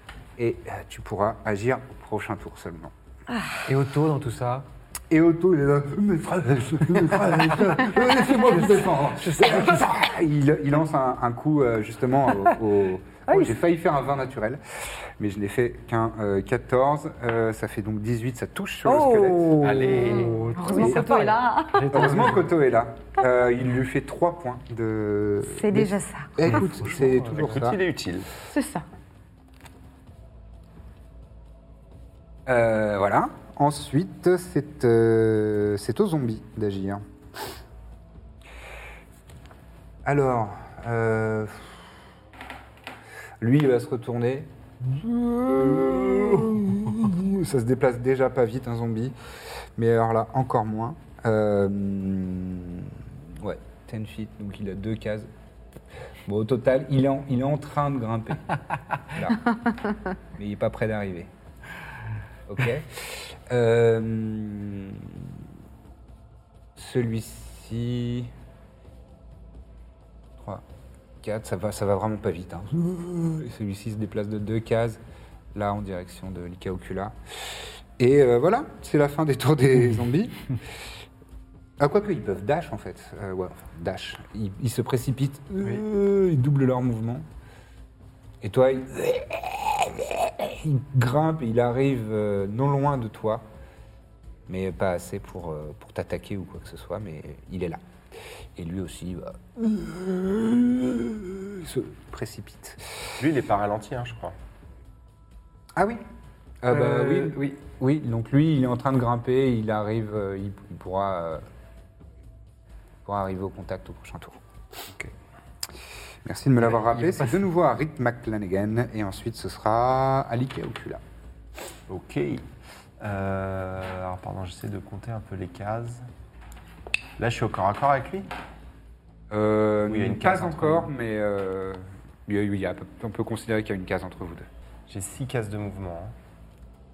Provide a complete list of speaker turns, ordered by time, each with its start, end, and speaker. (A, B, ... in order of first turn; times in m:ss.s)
0:00.4-0:02.9 A
0:03.3-0:03.6 B
0:03.6-0:04.6 C
0:05.1-0:19.9 A
0:09.2-0:09.9 C
0:13.3-0:13.5 C
0:18.8-0:22.5 C
0:19.6-0:20.4 D
0:20.0-0:22.3 B
0:20.7-0:21.1 A
0:21.9-0:27.8 A
0:25.5-0:26.6 B
0:26.5-0:27.5 C
0:27.2-0:28.3 D
0:28.5-0:28.8 B
0:32.4-0:37.0 A
0:40.0-0:41.8 A
0:43.4-0:49.1 A
0:49.8-0:55.3 A
0:56.2-0:59.4 A
1:00.4-1:01.3 A
1:02.5-1:05.3 A
1:06.8-1:08.3 A
1:10.4-1:10.6 A
1:11.2-1:15.0 A
1:15.5-1:20.5 A
1:21.8-1:27.2 A
1:28.4-1:33.4 A
1:34.5-1:37.8 A
1:38.6-1:42.8 A
1:43.2-1:44.3 D
1:45.8-1:46.0 A
1:46.6-1:51.4 A
1:46.7-1:47.5 C
1:53.0-1:54.4 A
1:56.2-2:01.0 A
1:56.6-1:57.4 C
2:01.9-2:02.4 D
2:03.0-2:06.0 D
2:07.2-2:08.3 D
2:09.3-2:14.5 A
2:09.9-2:10.9 D
2:14.9-2:16.1 D